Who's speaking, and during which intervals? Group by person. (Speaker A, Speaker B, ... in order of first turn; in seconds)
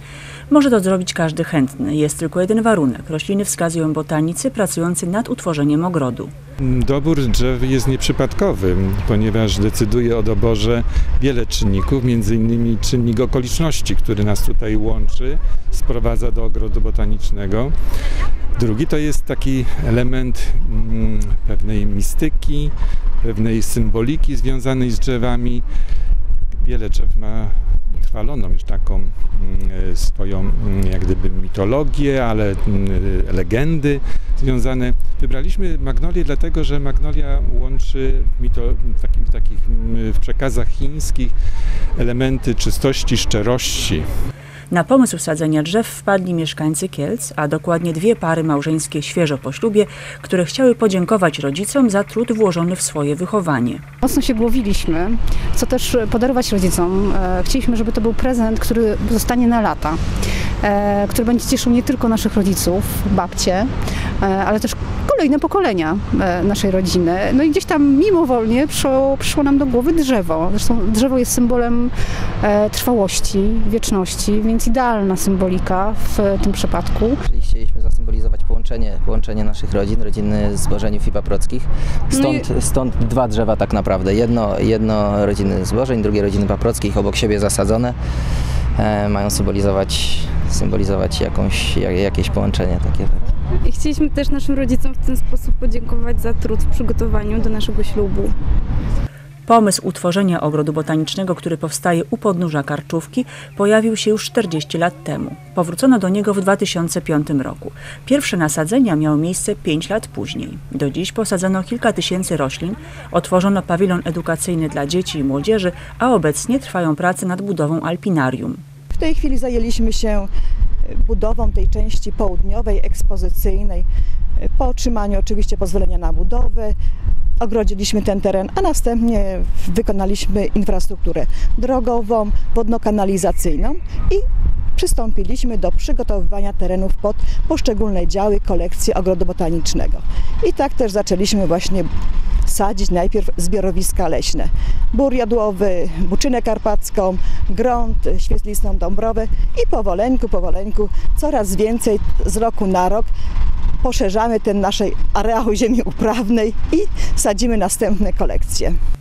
Speaker A: 0.5-6.3, 44.7-53.8, 99.5-118.6
Speaker B: 6.6-17.7, 18.6-25.6, 26.6-41.3, 42.0-44.0
Speaker C: 54.0-60.0, 60.6-77.2
Speaker D: 77.2-88.0, 88.8-93.2
Speaker E: 93.7-98.3
Speaker F: 118.9-120.3, 120.8-123.8, 124.4-126.8, 127.4-134.2, 134.8-141.9, 142.4-153.1, 153.8-158.8